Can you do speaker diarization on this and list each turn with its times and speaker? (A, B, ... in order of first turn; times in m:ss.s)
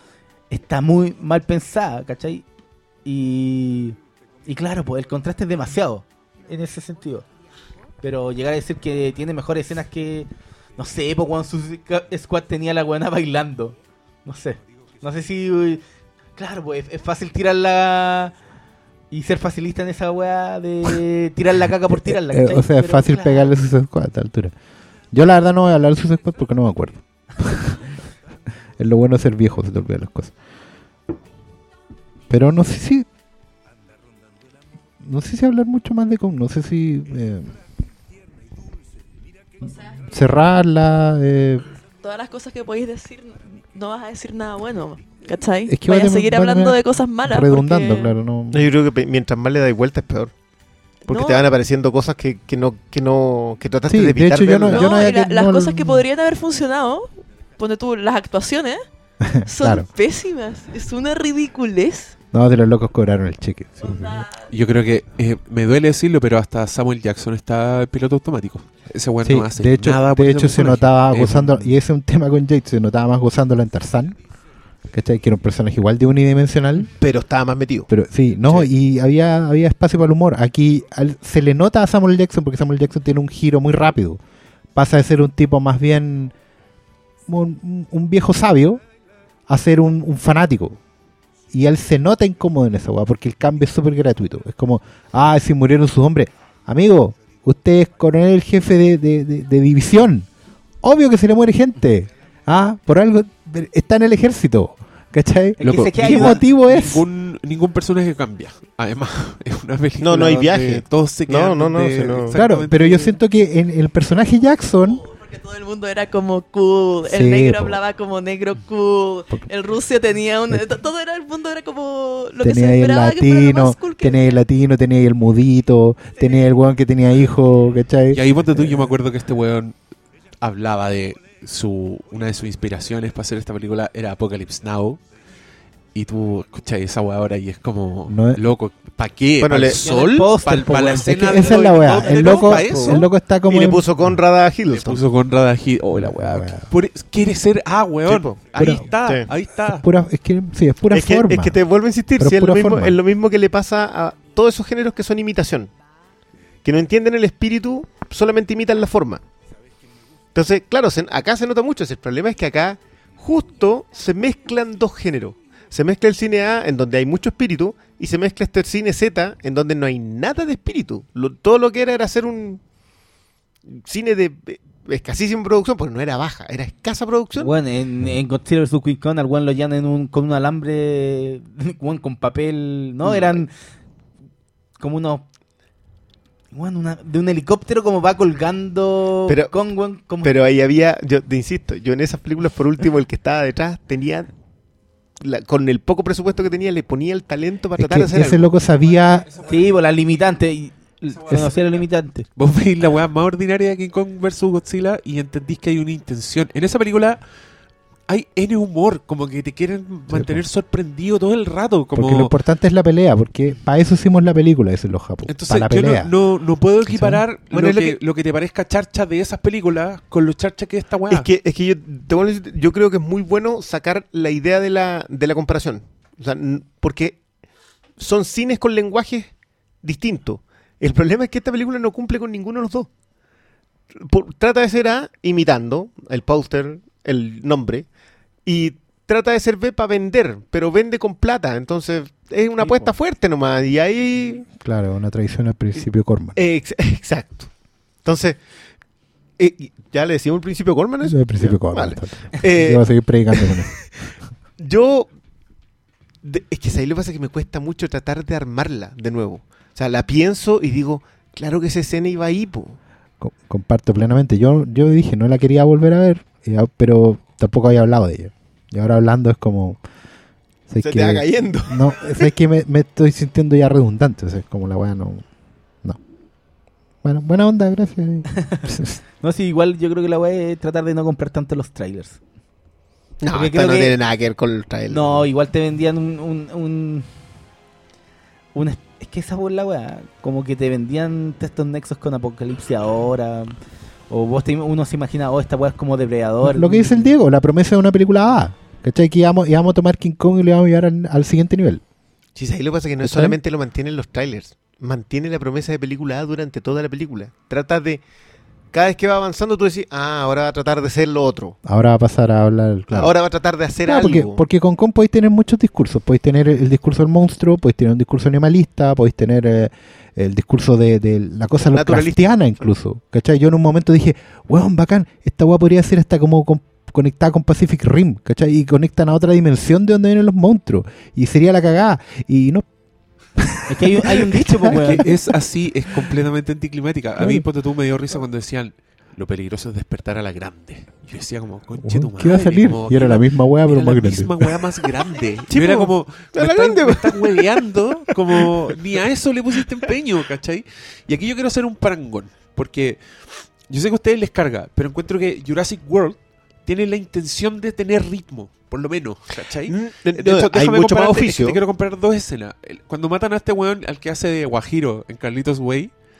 0:00.5-0:02.4 A
0:03.0-0:07.2 A
0:08.0-0:15.8 A
0:16.4-0:18.3 A
0:19.1-0:23.5 A
0:21.9-0:24.5 B
0:25.1-0:27.9 B
0:28.8-0:30.3 B
0:32.3-0:33.1 B
0:35.0-0:37.6 B
0:39.9-0:41.7 B
0:42.0-0:48.1 C
0:45.7-0:48.7 B
0:48.5-0:50.3 D
0:51.0-0:55.0 D
0:51.1-0:51.4 C
0:53.9-0:56.0 B
0:54.7-0:58.8 C
0:59.2-0:59.8 B
0:59.4-1:02.2 C
1:02.3-1:04.3 B
1:03.8-1:04.5 C
1:04.5-1:11.8 E
1:09.2-1:14.2 B
1:14.9-1:16.9 B
1:17.0-1:17.9 D
1:17.9-1:24.2 B
1:24.7-1:26.3 B
1:27.3-1:28.8 B
1:29.5-1:30.8 B
1:31.5-1:40.3 B
1:40.8-1:47.0 B
1:45.6-1:46.5 A
1:45.6-1:53.2 E
1:50.0-1:52.4 D
1:52.3-1:55.0 B
1:55.0-2:04.4 C
1:57.0-1:57.8 B
2:02.4-2:08.9 B
2:06.2-2:06.5 C
2:08.1-2:09.8 E
2:10.4-2:15.0 E
2:15.9-2:23.1 E
2:18.1-2:18.4 B
2:19.4-2:19.8 D
2:19.8-2:23.0 A
2:20.6-2:23.8 B
2:23.5-2:25.0 D
2:24.7-2:29.8 E
2:26.0-2:26.6 B
2:28.0-2:28.5 D
2:28.6-2:28.9 B
2:29.0-2:29.3 D
2:29.4-2:31.6 B
2:30.9-2:35.7 D
2:32.2-2:33.0 B
2:36.6-2:39.2 D
2:40.3-2:52.6 D
2:53.7-2:57.5 D
2:57.4-3:03.5 A
3:03.0-3:03.4 D
3:04.8-3:05.2 A
3:06.5-3:10.3 A
3:09.3-3:09.6 D
3:10.2-3:14.3 D
3:15.2-3:18.4 D
3:17.8-3:19.3 B
3:18.9-3:19.9 E
3:19.4-3:22.2 A
3:21.2-3:21.8 E
3:22.4-3:27.2 E
3:28.1-3:32.3 E
3:30.1-3:30.4 B
3:31.9-3:36.1 B
3:35.3-3:41.3 E
3:36.9-3:37.2 B
3:37.5-3:38.0 D
3:41.1-3:47.2 D
3:48.0-3:49.3 D
3:49.8-3:52.9 D
3:53.9-3:57.9 D
3:58.4-4:04.5 D
4:02.6-4:02.9 B
4:04.6-4:06.4 B
4:06.4-4:08.4 D
4:09.4-4:13.6 D
4:11.0-4:13.9 B
4:14.6-4:15.1 D
4:16.2-4:22.8 D
4:23.2-4:29.8 B
4:30.7-4:35.2 B
4:30.8-4:32.1 D
4:37.0-4:39.0 B
4:38.4-4:38.6 A
4:39.2-4:42.2 A
4:43.2-4:45.3 D
4:43.3-4:43.9 A
4:44.9-4:47.1 A
4:48.5-4:53.6 A
4:54.1-4:57.1 A
4:56.4-5:01.8 B
5:02.4-5:08.0 D
5:03.0-5:03.4 B
5:08.7-5:11.6 D
5:11.6-5:13.1 B
5:12.9-5:14.4 D
5:13.8-5:32.6 B
5:21.7-5:22.4 D
5:33.4-5:35.0 B
5:33.7-5:35.0 A
5:34.8-5:53.0 E
5:37.2-5:37.4 B
5:41.8-5:44.5 B
5:45.5-5:48.5 D
5:53.7-6:05.9 E
5:59.6-6:01.6 D